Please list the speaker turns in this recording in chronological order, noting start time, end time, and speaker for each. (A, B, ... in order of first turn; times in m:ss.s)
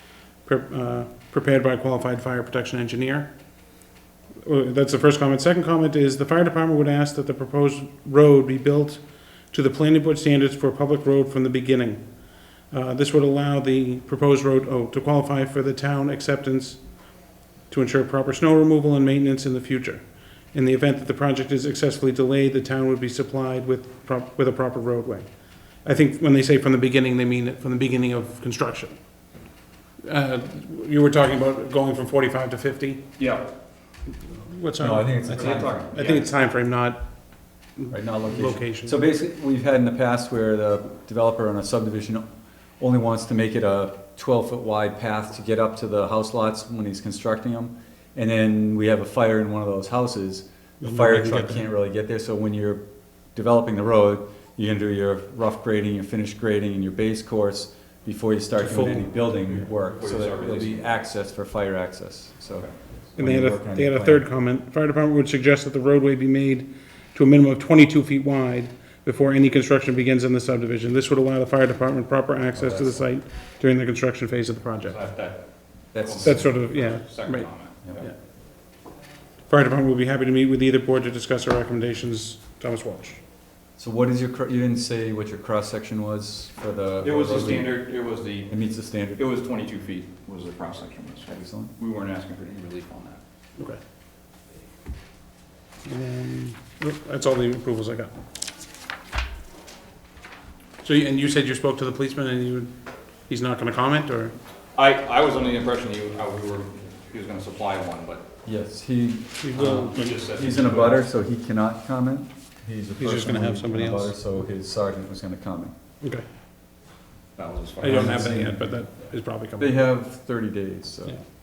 0:00.4-0:03.3 A
0:04.4-0:12.0 A
0:12.7-0:16.8 A
0:17.7-0:25.2 A
0:25.8-0:29.0 A
0:30.0-0:33.0 A
0:33.2-0:33.5 B
0:34.3-0:37.0 A
0:34.8-0:35.8 C
0:35.3-0:36.3 B
0:37.8-0:39.0 A
0:37.9-0:42.2 C
0:42.8-0:52.8 C
0:50.8-0:51.7 A
0:53.3-1:04.2 C
0:58.6-0:59.2 A
0:59.7-1:00.9 B
1:03.2-1:15.0 A
1:12.5-1:13.0 C
1:14.8-1:18.0 B
1:15.9-1:16.5 C
1:16.2-1:17.5 A
1:19.5-1:23.2 A
1:23.8-1:27.8 C
1:27.0-1:28.5 B
1:28.5-1:29.2 C
1:29.2-1:33.2 B
1:31.3-1:31.7 C
1:35.8-1:38.2 A
1:40.8-1:42.7 A
1:43.3-1:44.3 A
1:44.8-1:48.3 B
1:48.4-1:55.7 C
1:49.4-1:50.6 A
1:49.6-1:51.0 B
1:53.0-1:54.1 A
1:57.4-1:58.3 B
1:57.8-1:59.8 A
1:57.8-1:58.6 C
1:59.6-2:01.2 C